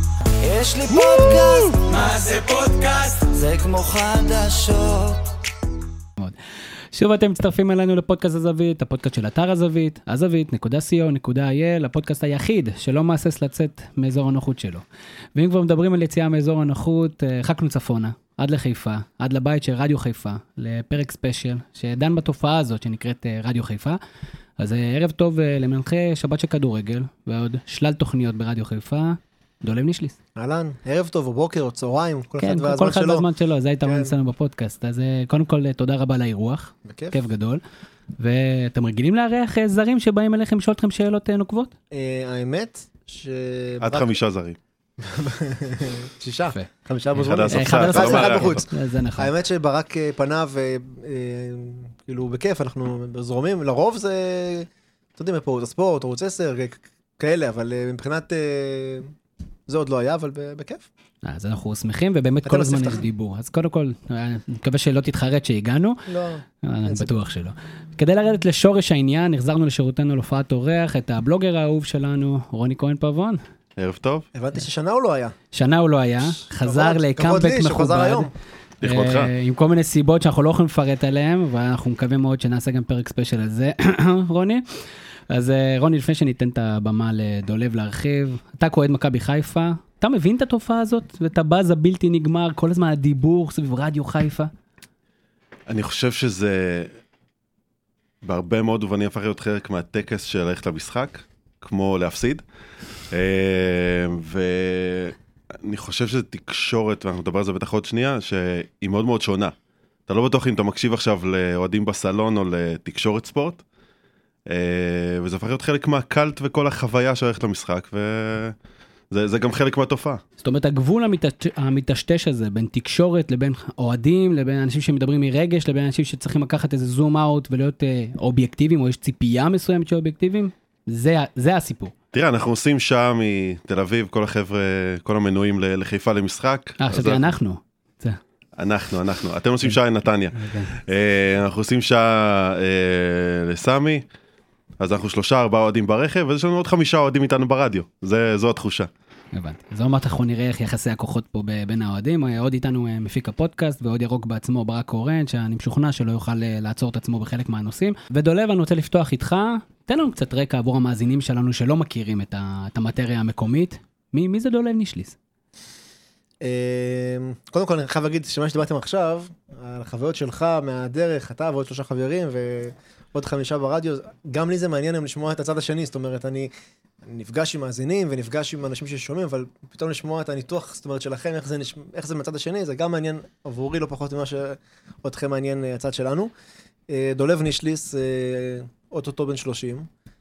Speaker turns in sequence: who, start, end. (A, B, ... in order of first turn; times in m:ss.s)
0:00.4-0:05.4 A
0:06.9-0:14.8 B
0:15.3-0:24.0 B
0:24.6-0:30.1 B
0:30.4-0:33.2 C
0:32.4-0:37.6 B
0:33.8-0:34.1 C
0:36.8-0:37.1 C
0:38.2-0:41.7 B
0:41.9-0:44.1 C
0:43.8-0:44.6 D
0:45.0-0:59.1 C
0:47.2-0:48.6 D
0:47.5-0:49.3 B
0:59.7-1:00.9 C
1:01.2-1:06.1 B
1:02.4-1:03.0 C
1:06.1-1:07.1 C
1:06.6-1:13.4 B
1:13.8-1:14.3 D
1:14.3-1:15.3 C
1:15.5-1:18.3 B
1:16.4-1:18.3 C
1:18.8-1:19.3 D
1:18.8-1:24.6 B
1:25.3-1:34.5 B
1:35.7-1:36.9 D
1:38.2-1:42.4 D
1:43.1-1:49.5 D
1:50.1-1:53.6 D
1:54.4-1:58.6 D
1:59.1-2:00.2 D
2:00.4-2:11.9 B
2:12.1-2:17.2 D
2:16.8-2:18.2 B
2:18.6-2:24.0 D
2:20.3-2:20.7 B
2:24.8-2:28.9 D
2:29.3-2:45.2 B
2:46.4-2:56.5 C
2:57.0-3:06.3 C
3:06.9-3:09.9 C